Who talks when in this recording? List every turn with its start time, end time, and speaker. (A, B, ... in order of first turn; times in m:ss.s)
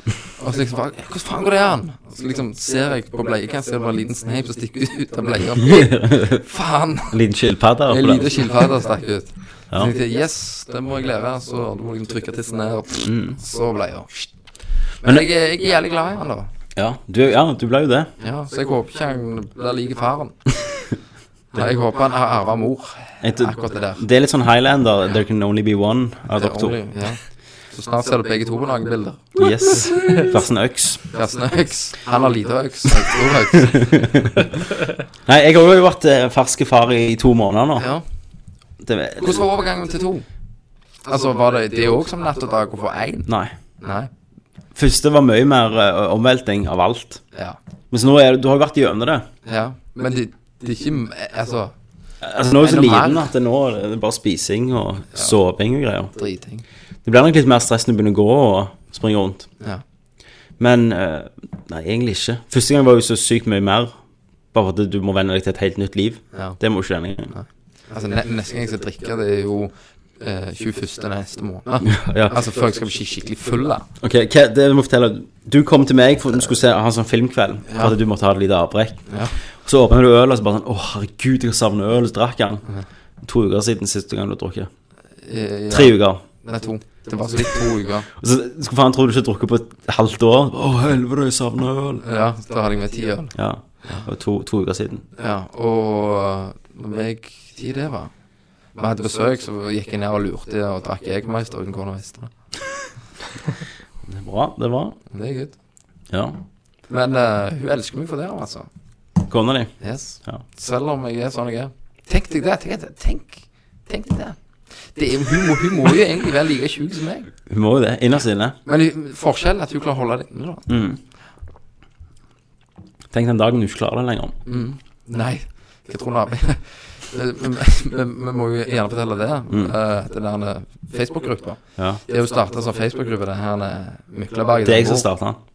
0:00.4-0:07.2 A
0:05.6-0:06.4 B
0:07.1-0:08.4 B
0:07.9-0:14.2 A
0:13.0-0:13.4 B
0:15.0-0:16.5 A
0:16.8-0:18.1 B
0:18.2-0:20.4 A
0:21.5-0:24.0 A
0:23.2-0:26.8 B
0:26.3-0:27.2 A
0:27.7-0:30.4 A
0:29.4-0:31.0 B
0:31.1-0:34.1 A
0:33.6-0:34.4 B
0:35.3-0:37.9 B
0:37.8-0:38.0 A
0:38.8-0:39.4 B
0:39.2-0:40.2 A
0:41.0-0:43.3 A
0:43.3-0:43.5 B
0:43.8-0:44.1 A
0:44.7-0:47.2 B
0:47.9-0:49.3 B
0:49.4-0:51.7 A
0:52.2-0:56.1 B
0:52.5-0:53.3 A
0:56.1-0:56.6 A
0:57.0-0:59.5 B
1:00.6-1:03.9 B
1:04.5-1:07.3 B
1:06.3-1:06.6 A
1:07.3-1:13.9 A
1:11.9-1:12.4 B
1:14.0-1:19.1 B
1:19.6-1:22.6 B
1:23.2-1:24.7 B
1:25.2-1:28.1 A
1:25.7-1:26.2 B
1:28.2-1:32.0 B
1:32.0-1:33.3 A
1:33.4-1:35.0 B
1:35.2-1:38.1 A
1:38.8-1:42.3 A
1:44.1-1:45.0 B
1:45.1-1:45.5 A
1:46.1-1:46.4 B
1:46.9-1:48.7 A
1:49.3-1:49.7 B
1:49.8-1:54.4 A
1:54.9-1:57.3 A
1:57.5-1:58.6 B
1:58.6-2:00.7 A
2:00.7-2:01.0 B
2:03.1-2:04.4 B
2:04.4-2:15.1 A
2:14.6-2:15.4 B